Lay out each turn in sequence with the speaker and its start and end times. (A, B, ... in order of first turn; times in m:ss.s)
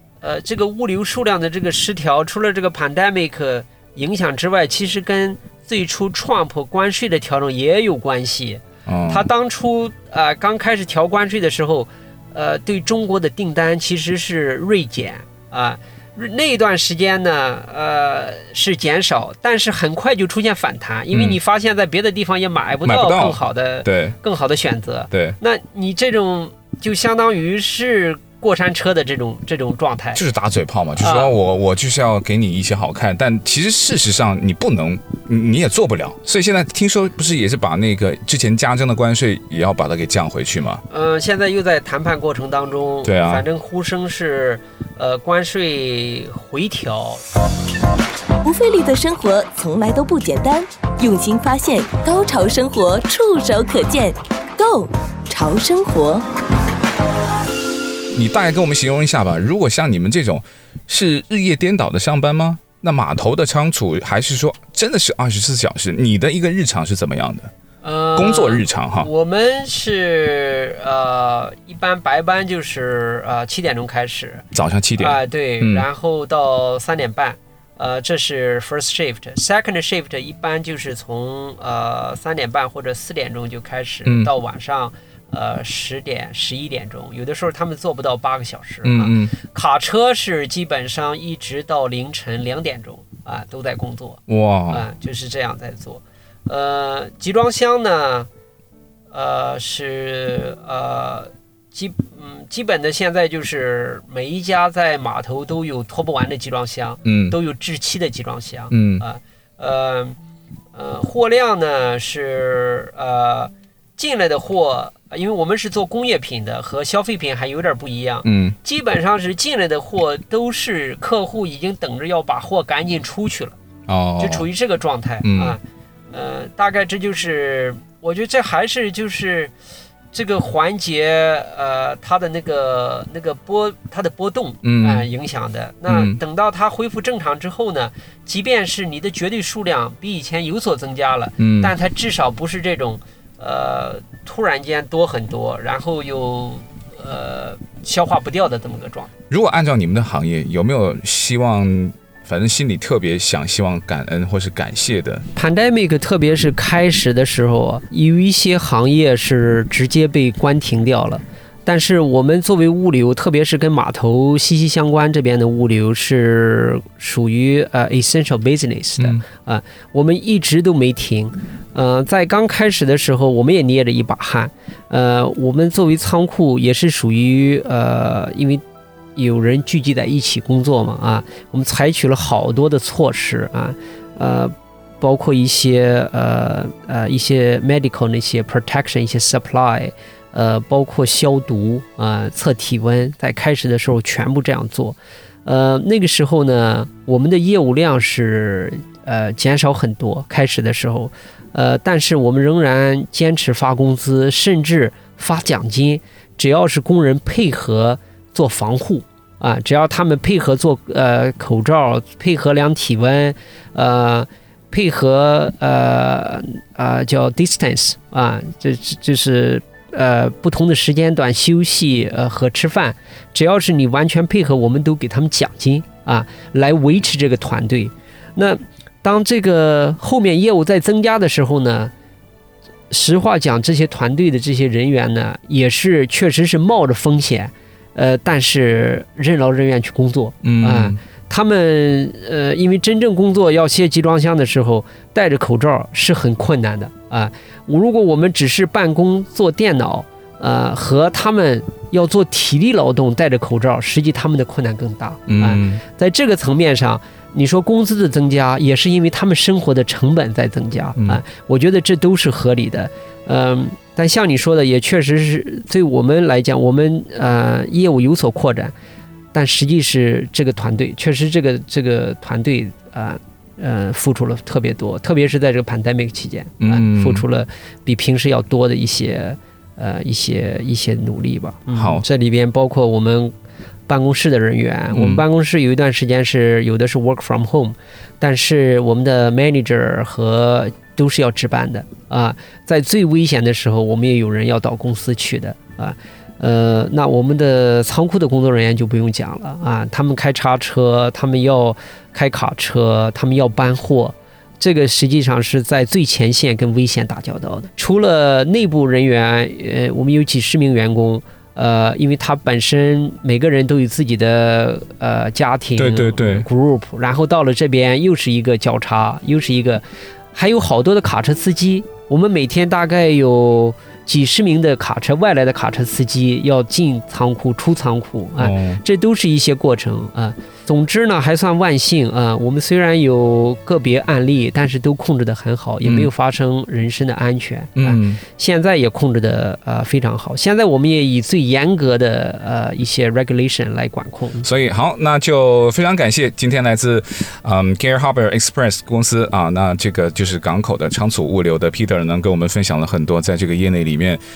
0:00.2-0:30.2 A
0:08.8-0:09.3 B
0:21.1-0:21.4 B
0:22.8-0:24.2 B
0:25.1-0:25.4 B
0:30.1-0:40.8 B
0:31.0-0:31.3 A
0:40.9-0:47.2 A
0:43.0-0:43.4 B
0:48.4-0:56.2 C
0:58.1-1:07.5 B
1:07.8-1:14.4 A
1:08.1-1:09.1 B
1:14.5-1:15.8 B
1:15.0-1:38.3 A
1:28.8-1:29.3 B
1:34.3-1:34.8 B
1:39.1-1:50.2 A
1:47.0-1:47.4 B
1:48.7-1:49.0 B
1:50.7-2:03.6 A
1:58.2-1:58.6 B
2:03.9-2:04.4 B
2:04.2-2:09.5 A
2:05.2-2:05.6 B
2:10.1-2:29.1 A
2:14.6-2:15.0 B
2:15.9-2:16.2 B
2:21.4-2:21.7 B
2:29.3-2:35.2 B
2:35.3-2:58.6 A
2:49.0-2:49.2 B
2:59.2-3:51.9 A
3:52.9-4:28.7 A
4:00.4-4:01.0 B
4:15.3-4:15.8 B
4:21.0-4:21.2 B
4:29.3-4:43.3 A
4:36.6-4:37.2 B
4:41.7-4:42.0 B
4:43.9-5:19.8 A
4:44.9-4:45.2 B
5:15.8-5:16.4 B
5:20.3-5:44.5 A
5:28.4-5:28.8 B
5:35.8-5:36.1 B
5:37.8-5:38.2 B
5:44.4-5:54.2 B